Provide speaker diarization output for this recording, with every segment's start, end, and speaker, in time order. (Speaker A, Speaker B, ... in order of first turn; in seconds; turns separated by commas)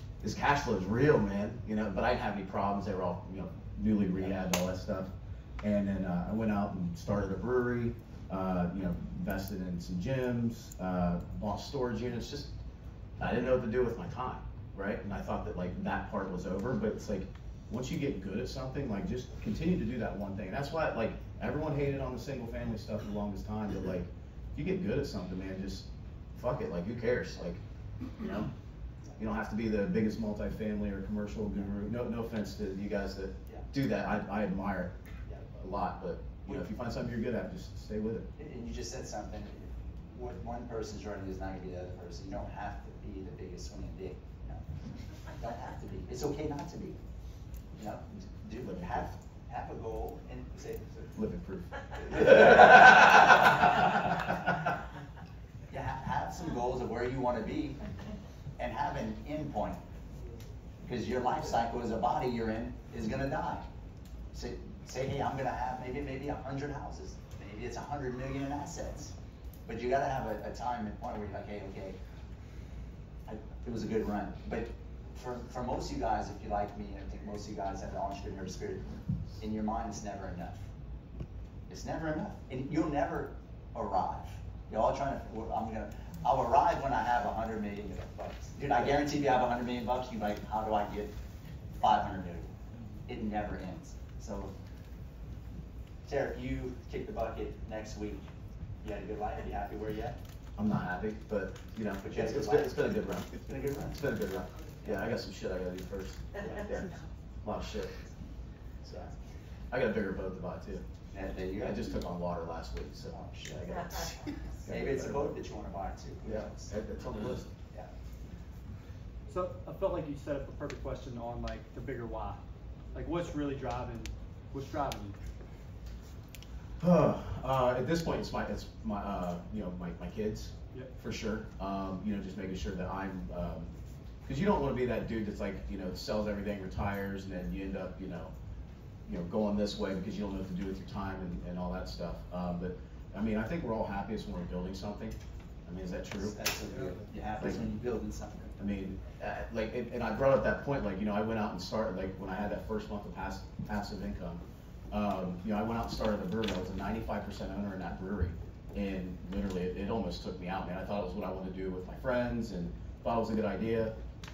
Speaker A: 0.2-12.5, Speaker A: 13.2-27.6, Speaker A: 28.2-28.5, Speaker A: 29.2-34.9, Speaker A: 35.5-38.3, Speaker B: 38.4-44.6, Speaker B: 45.4-47.0, Speaker B: 47.8-51.1, Speaker A: 48.6-49.0, Speaker A: 51.1-53.9, Speaker B: 55.7-57.8, Speaker B: 58.6-59.8, Speaker B: 60.8-63.7, Speaker B: 64.3-69.1, Speaker B: 69.7-72.0, Speaker B: 73.3-78.9, Speaker B: 79.4-80.7, Speaker B: 81.7-91.1, Speaker B: 91.8-92.5, Speaker B: 93.1-94.5, Speaker B: 96.1-98.2, Speaker B: 98.8-100.2, Speaker A: 100.6-107.9, Speaker B: 102.0-102.8, Speaker B: 103.5-104.1, Speaker B: 106.4-106.7, Speaker A: 108.8-109.1, Speaker A: 109.7-110.8, Speaker B: 111.1-111.8, Speaker A: 111.6-115.4, Speaker B: 113.1-113.8, Speaker B: 114.7-116.7, Speaker A: 116.2-117.5, Speaker C: 119.3-122.4, Speaker C: 122.9-125.2, Speaker A: 126.8-133.7, Speaker A: 134.2-138.3, Speaker A: 139.1-146.4, Speaker B: 146.2-148.6, Speaker A: 147.4-147.7, Speaker A: 148.6-163.9